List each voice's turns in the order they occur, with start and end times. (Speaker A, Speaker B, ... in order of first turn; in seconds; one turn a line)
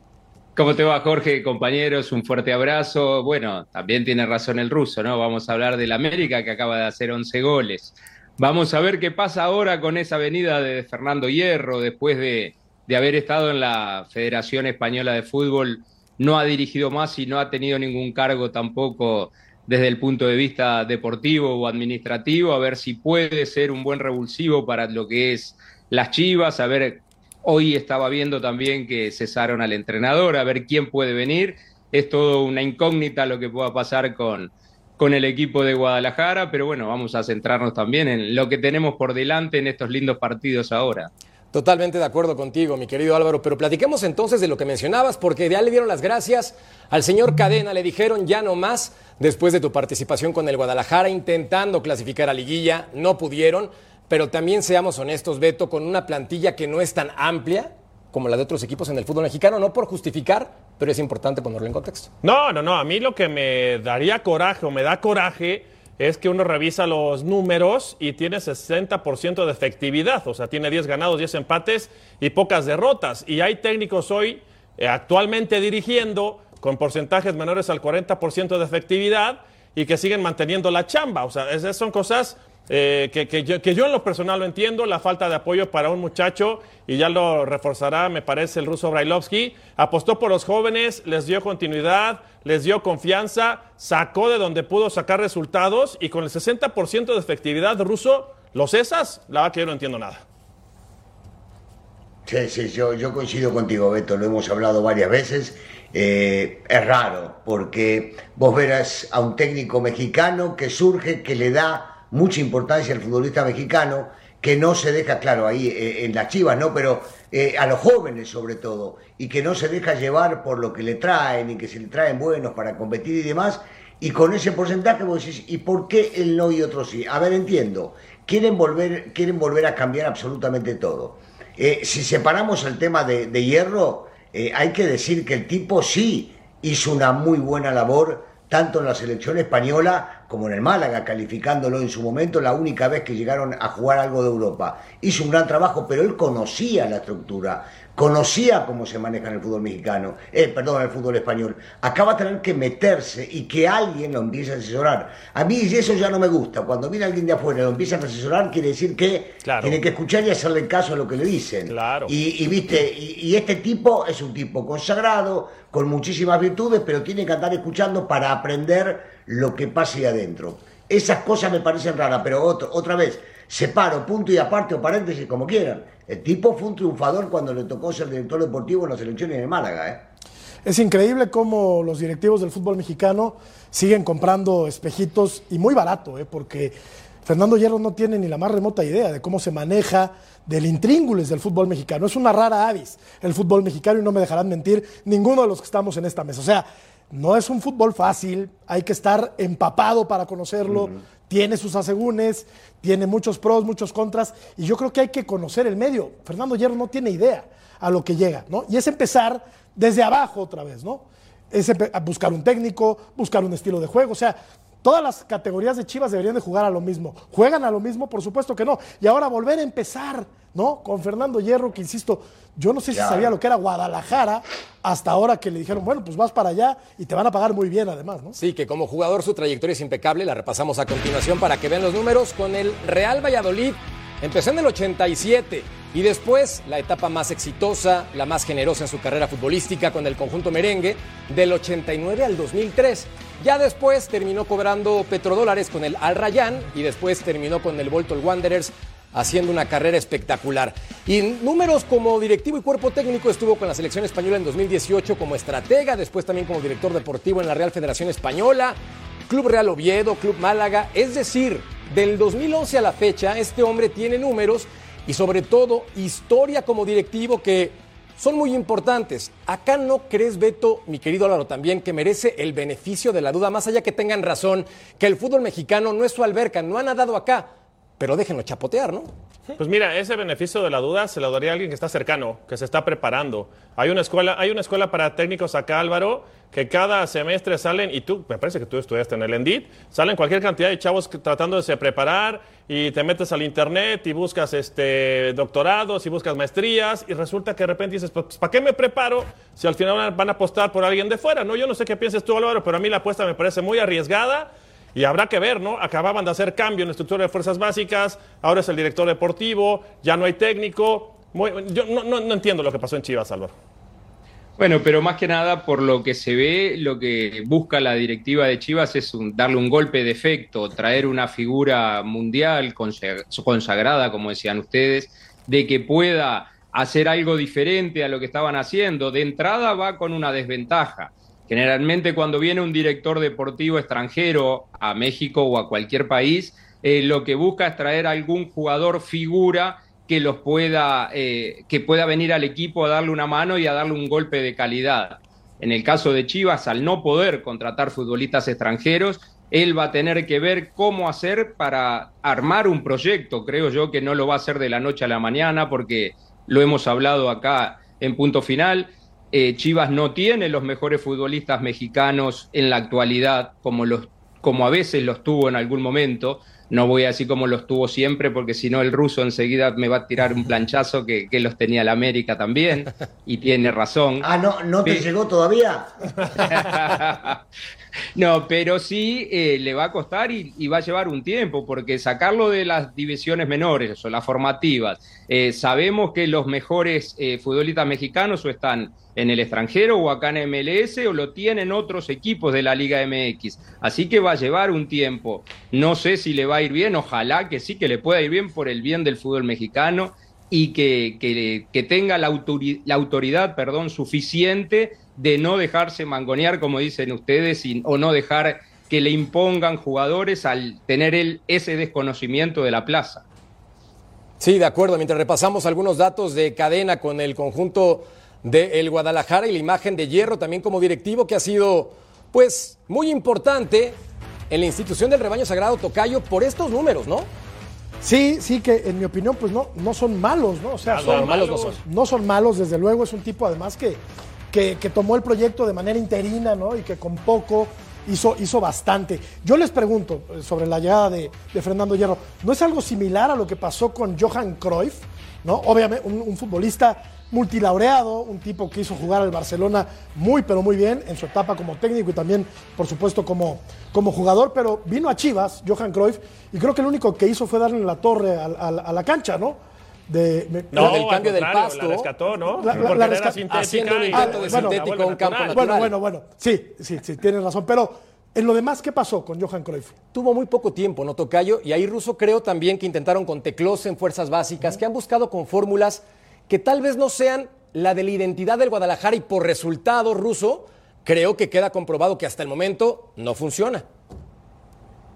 Speaker A: 0.6-41.1
Speaker B: 41.5-62.1
Speaker C: 62.2-100.2
Speaker D: 102.2-180.0
Speaker C: 159.4-159.8
Speaker C: 161.7-162.1
Speaker E: 180.6-228.3
Speaker D: 200.7-201.0
Speaker D: 222.9-223.3
Speaker B: 228.3-279.1
Speaker C: 279.6-313.5
Speaker A: 314.6-374.3
Speaker D: 374.2-376.3
Speaker A: 376.5-377.4
Speaker A: 378.1-413.2
Speaker B: 414.4-424.0
Speaker B: 424.5-427.3
Speaker E: 428.0-461.0
Speaker C: 430.8-431.8
Speaker B: 431.0-431.8
Speaker C: 460.7-465.9
Speaker B: 460.7-462.1
Speaker E: 462.6-463.4
Speaker B: 463.5-465.9
Speaker E: 464.1-464.8
Speaker E: 465.5-469.9
Speaker B: 470.1-483.9